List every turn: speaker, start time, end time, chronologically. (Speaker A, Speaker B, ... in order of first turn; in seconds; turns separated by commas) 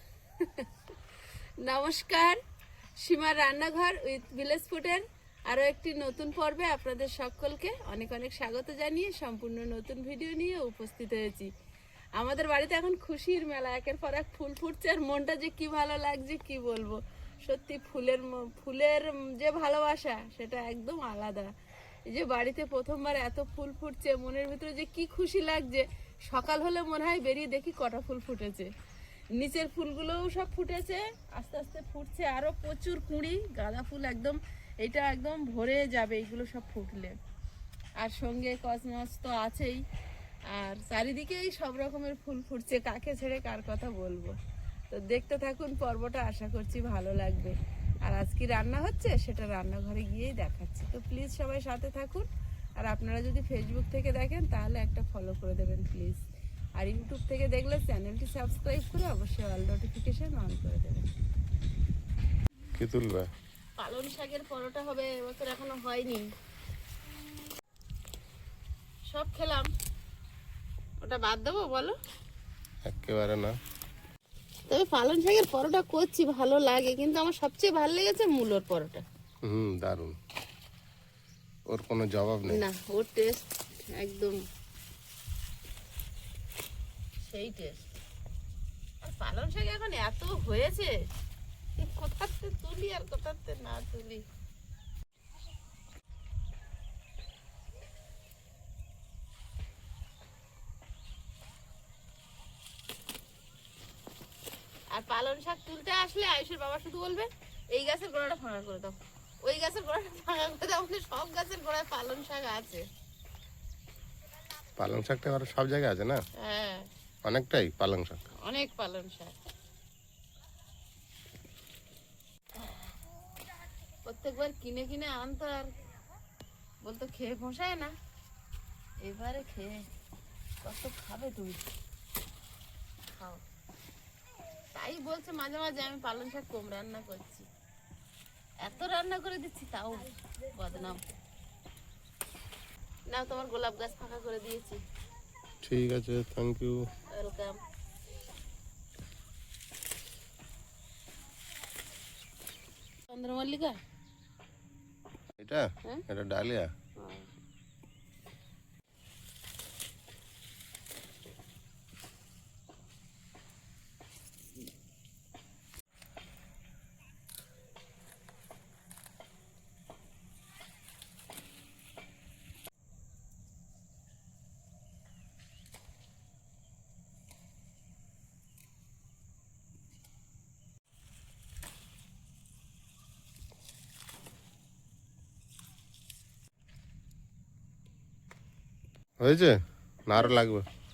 Speaker A: 0.4-0.7, Speaker A: 1.6-2.4, Speaker A: 3.0-11.5, Speaker A: 12.2-21.5, Speaker A: 22.1-28.7, Speaker A: 29.4-37.1, Speaker A: 38.0-39.8, Speaker A: 40.5-44.3, Speaker A: 44.9-47.5, Speaker A: 48.0-52.3, Speaker A: 52.8-56.2, Speaker A: 56.8-61.1, Speaker B: 62.8-63.3, Speaker A: 63.8-66.3, Speaker A: 69.1-69.7, Speaker A: 71.0-72.0, Speaker B: 72.8-73.5, Speaker A: 74.7-79.0, Speaker B: 79.4-80.2, Speaker B: 81.7-82.6, Speaker A: 82.5-84.4, Speaker A: 87.2-87.8, Speaker A: 89.0-90.9, Speaker A: 91.8-94.2, Speaker A: 104.9-112.8, Speaker B: 114.8-116.2, Speaker A: 116.4-116.9, Speaker B: 117.2-118.2, Speaker A: 118.5-119.3, Speaker A: 122.6-122.9, Speaker A: 124.0-125.7, Speaker A: 126.8-127.9, Speaker A: 129.0-129.9, Speaker A: 130.6-131.6, Speaker A: 133.1-133.4, Speaker A: 134.7-137.5, Speaker A: 138.6-141.0, Speaker A: 143.1-144.8, Speaker B: 145.6-146.8, Speaker A: 147.1-147.6, Speaker A: 153.1-153.8, Speaker B: 155.4-156.7, Speaker A: 157.0-157.3, Speaker B: 189.2-190.7